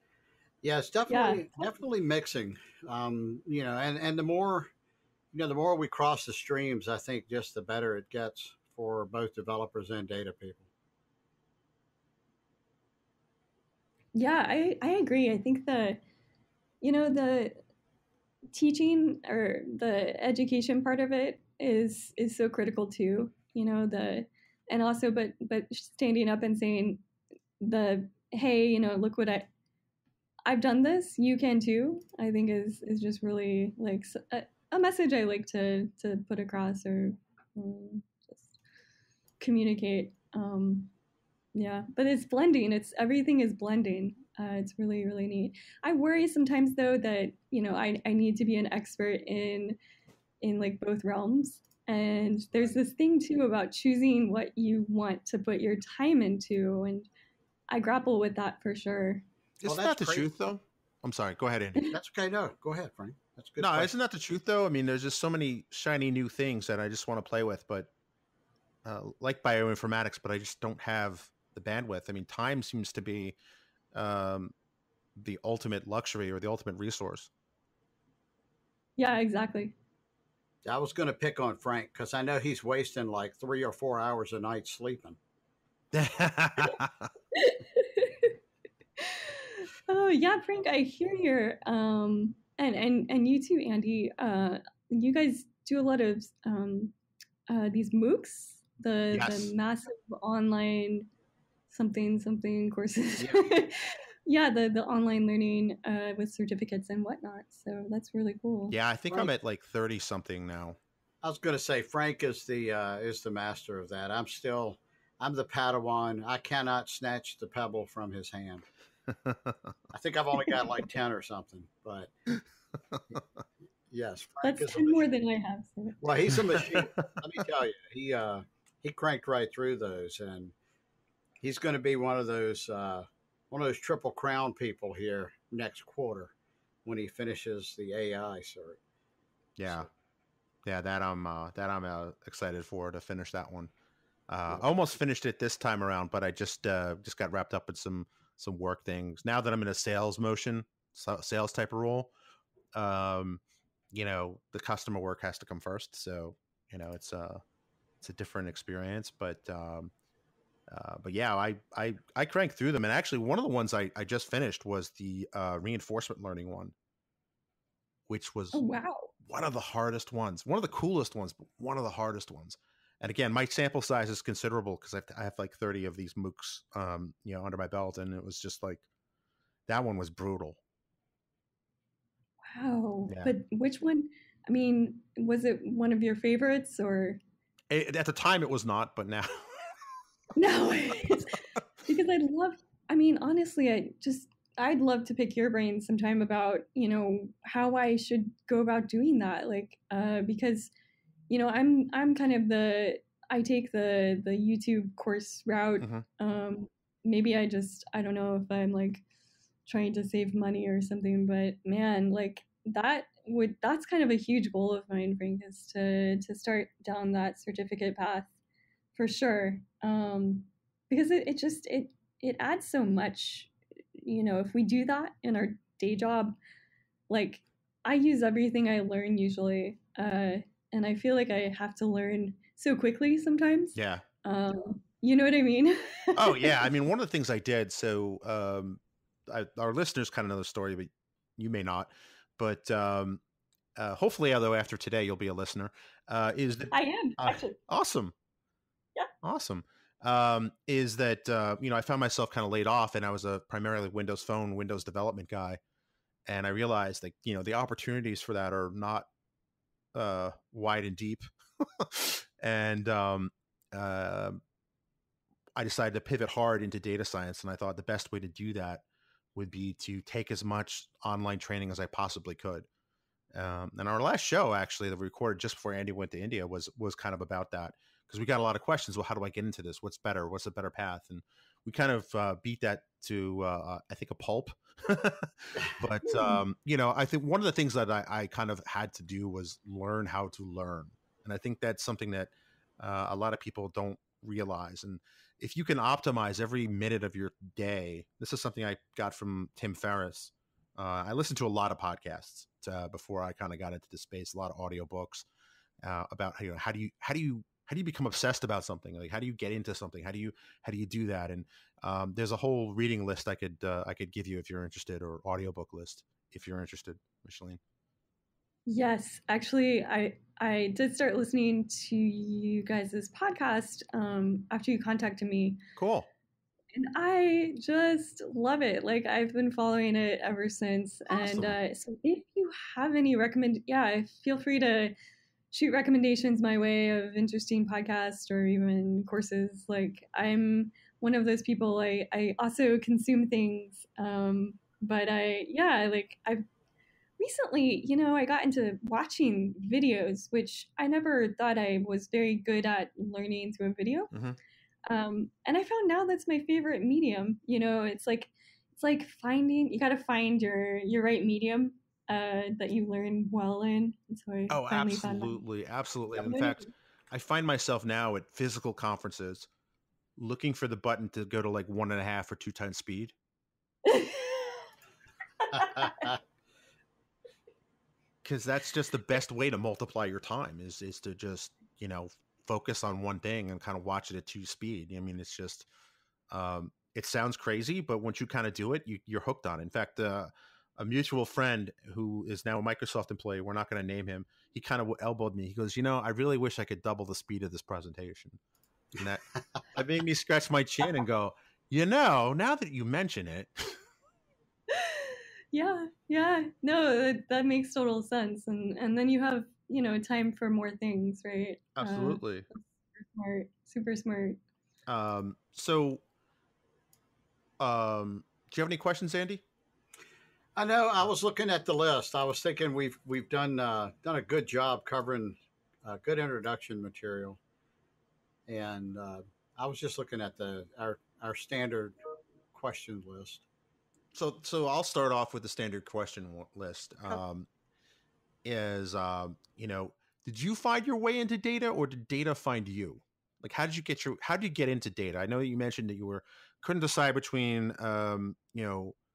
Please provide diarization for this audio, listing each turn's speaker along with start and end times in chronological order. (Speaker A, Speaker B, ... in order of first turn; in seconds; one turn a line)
Speaker A: 0.6-4.7
Speaker B: 1.1-1.7
Speaker A: 5.3-10.7
Speaker B: 14.2-16.0
Speaker B: 16.8-17.6
Speaker B: 18.5-27.0
Speaker B: 27.6-29.5
Speaker B: 30.5-38.6
Speaker B: 39.4-40.9
Speaker B: 41.5-49.8
Speaker B: 50.4-57.1
Speaker B: 57.7-59.2
Speaker C: 59.6-61.9
Speaker A: 59.6-60.3
Speaker A: 61.9-63.9
Speaker C: 63.6-67.9
Speaker C: 68.8-73.4
Speaker C: 73.9-74.5
Speaker C: 75.2-77.3
Speaker B: 79.0-79.7
Speaker A: 80.7-85.2
Speaker C: 85.9-87.1
Speaker B: 87.3-88.3
Speaker B: 89.0-96.9
Speaker B: 97.5-101.1
Speaker C: 99.1-99.5
Speaker B: 101.7-108.8
Speaker A: 103.2-103.5
Speaker C: 108.7-110.8
Speaker A: 111.2-118.7
Speaker C: 119.1-119.6
Speaker A: 119.9-122.1
Speaker A: 123.9-125.1
Speaker B: 124.4-126.3
Speaker A: 126.0-130.5
Speaker A: 131.4-136.3
Speaker A: 136.8-138.8
Speaker C: 139.6-139.9
Speaker C: 140.7-143.7
Speaker C: 144.3-152.1
Speaker C: 152.7-153.4
Speaker C: 153.9-157.4
Speaker C: 158.0-159.9
Speaker C: 160.7-166.7
Speaker C: 168.1-168.6
Speaker B: 168.5-169.1
Speaker C: 169.2-178.8
Speaker C: 179.7-180.6
Speaker B: 182.5-187.2
Speaker C: 187.7-189.7
Speaker B: 190.4-200.7
Speaker B: 201.3-209.0
Speaker C: 205.8-206.1
Speaker B: 209.7-218.3
Speaker B: 218.9-226.4
Speaker B: 227.1-236.7
Speaker C: 233.8-234.1
Speaker C: 236.2-243.2
Speaker C: 243.8-248.1
Speaker B: 246.7-247.6
Speaker C: 249.2-255.6
Speaker C: 256.3-259.1
Speaker C: 259.9-264.4
Speaker C: 265.6-268.8
Speaker C: 269.4-272.7
Speaker C: 273.3-305.2
Speaker C: 305.8-317.6
Speaker B: 318.7-325.6
Speaker C: 325.8-326.1
Speaker B: 326.7-334.9
Speaker C: 331.1-331.5
Speaker B: 335.5-346.4
Speaker B: 347.2-354.1
Speaker C: 354.1-354.4
Speaker B: 354.9-365.4
Speaker C: 364.5-369.5
Speaker B: 366.2-366.7
Speaker C: 370.2-373.1
Speaker B: 373.9-374.7
Speaker B: 375.4-376.2
Speaker C: 378.2-385.7
Speaker C: 386.3-398.4
Speaker C: 399.0-403.8
Speaker B: 404.7-414.4
Speaker C: 411.8-412.5
Speaker C: 414.9-416.0
Speaker C: 417.6-419.4
Speaker A: 420.6-427.4
Speaker A: 428.5-432.0
Speaker A: 432.5-433.4
Speaker C: 434.1-437.5
Speaker C: 438.4-448.9